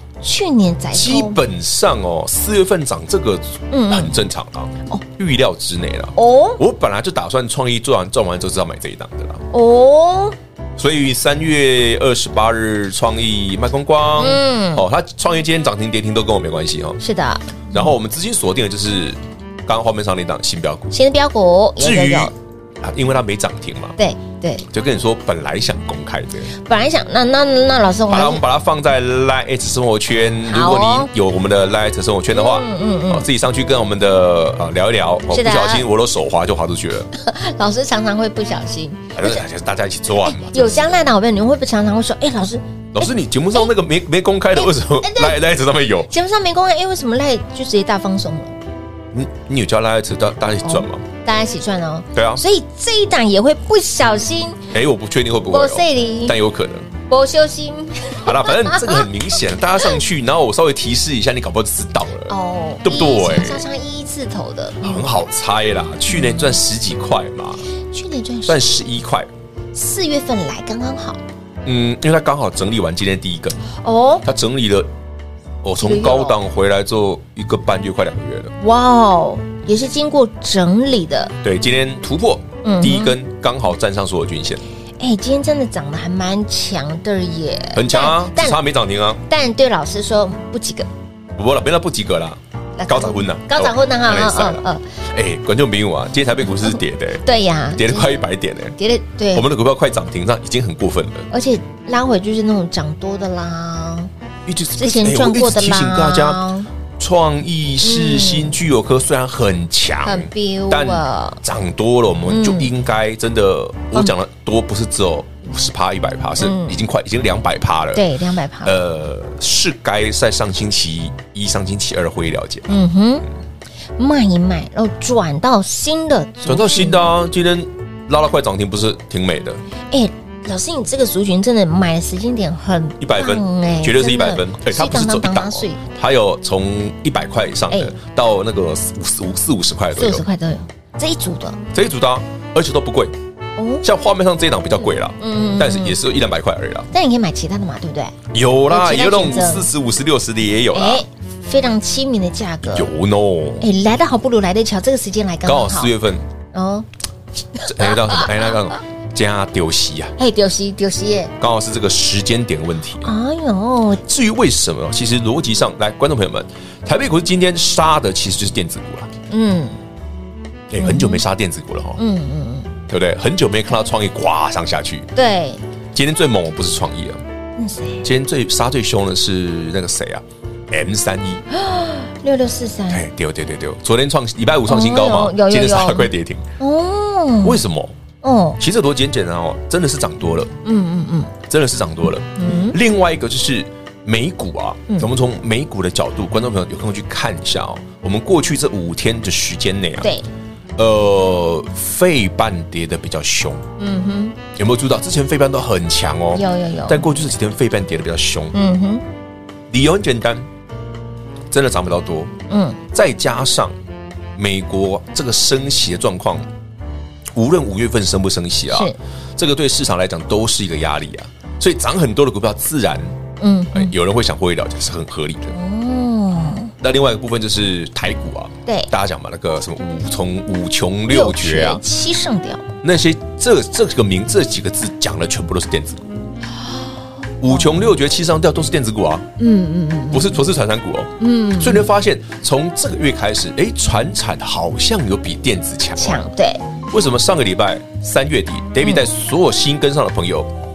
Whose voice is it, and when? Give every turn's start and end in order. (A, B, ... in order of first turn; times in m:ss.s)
0:00.2-0:01.4 A
0:00.9-0:09.4 B
0:03.7-0:04.1 A
0:06.2-0:06.6 A
0:09.5-0:10.4 A
0:10.8-0:17.0 B
0:14.2-0:14.8 A
0:17.0-0:17.9 A
0:17.7-0:20.9 B
0:20.9-0:22.3 A
0:21.8-0:23.9 B
0:24.0-0:24.6 A
0:24.7-0:26.5 B
0:26.5-0:28.4 A
0:28.1-0:37.1 B
0:30.5-0:31.1 A
0:32.3-0:33.3 A
0:35.3-0:35.8 A
0:37.1-0:39.4 A
0:39.1-0:40.9 B
0:40.2-0:42.6 A
0:42.9-0:46.1 B
0:44.6-0:45.4 A
0:46.1-0:48.6 A
0:49.1-0:51.0 B
0:50.6-0:54.6 A
0:52.1-0:52.4 B
0:54.7-0:56.9 B
0:55.5-0:56.4 A
0:57.1-0:59.0 A
0:58.2-1:03.6 B
1:02.3-1:05.1 A
1:04.8-1:07.6 B
1:06.1-1:06.6 A
1:07.9-1:08.6 A
1:08.4-1:09.3 B
1:09.7-1:11.2 A
1:11.6-1:13.6 B
1:13.8-1:14.2 A
1:14.2-1:14.9 B
1:15.6-1:18.5 B
1:15.8-1:16.4 A
1:18.6-1:21.3 A
1:21.4-1:24.6 B
1:22.6-1:23.2 A
1:25.0-1:28.6 A
1:27.7-1:29.2 B
1:29.3-1:30.9 A
1:31.4-1:38.7 B
1:32.8-1:34.8 A
1:37.2-1:38.1 A
1:38.8-1:39.4 A
1:39.3-1:41.3 B
1:41.3-1:44.1 A
1:44.4-1:46.4 B
1:44.7-1:46.7 A
1:47.0-1:58.0 B
1:47.8-1:48.6 A
1:50.0-1:51.4 A
1:52.3-1:52.7 A
1:56.4-1:56.8 A
1:57.9-1:58.7 A
1:58.6-2:02.8 B
2:02.7-2:03.3 A
2:04.0-2:07.1 A
2:06.4-2:09.6 B
2:09.9-2:15.8 A
2:13.0-2:20.2 B
2:20.0-2:21.6 A
2:21.7-2:23.1 B
2:23.6-2:23.8 A
2:23.8-2:26.9 B
2:25.2-2:26.0 A
2:26.9-2:28.2 A
2:28.3-2:31.0 B
2:28.7-2:29.7 A
2:30.7-2:32.9 A
2:32.7-2:33.7 B
2:33.6-2:35.9 A
2:35.4-2:36.2 B
2:36.5-2:36.9 A
2:37.6-2:38.3 A
2:37.6-2:40.2 B
2:40.2-2:41.3 A
2:41.4-2:43.1 B
2:43.0-2:44.0 A
2:44.0-2:49.1 B
2:49.3-2:49.8 A
2:50.7-2:52.0 B
2:50.8-2:51.2 A
2:52.0-2:52.7 A
2:52.9-2:55.1 B
2:55.1-2:55.6 A
2:55.9-2:57.2 B
2:57.6-2:58.0 A
2:58.0-3:01.4 B
3:01.5-3:03.0 A
3:02.9-3:06.5 B
3:04.7-3:07.6 A
3:07.4-3:08.0 B
3:08.2-3:08.6 A
3:08.6-3:10.5 B
3:10.6-3:11.3 A
3:11.5-3:20.1 B
3:12.4-3:12.8 A
3:20.0-3:20.3 A
3:20.8-3:23.6 B
3:23.8-3:24.4 A
3:24.6-3:28.5 B
3:26.3-3:27.0 A
3:28.5-3:29.0 A
3:29.7-3:30.5 B
3:31.5-3:32.3 B
3:32.5-3:32.8 A
3:32.9-3:33.7 B
3:34.4-3:36.4 B
3:37.3-3:43.1 B
3:38.7-3:39.0 A
3:43.4-3:43.9 A
3:43.7-3:45.5 B
3:45.5-3:46.7 A
3:46.8-3:51.8 B
3:51.1-3:52.6 A
3:52.8-3:56.1 B
3:57.4-3:59.3 B
3:57.5-3:57.8 A
3:59.4-4:00.4 A
4:00.1-4:06.2 B
4:01.2-4:01.9 A
4:06.0-4:06.6 A
4:06.9-4:10.5 B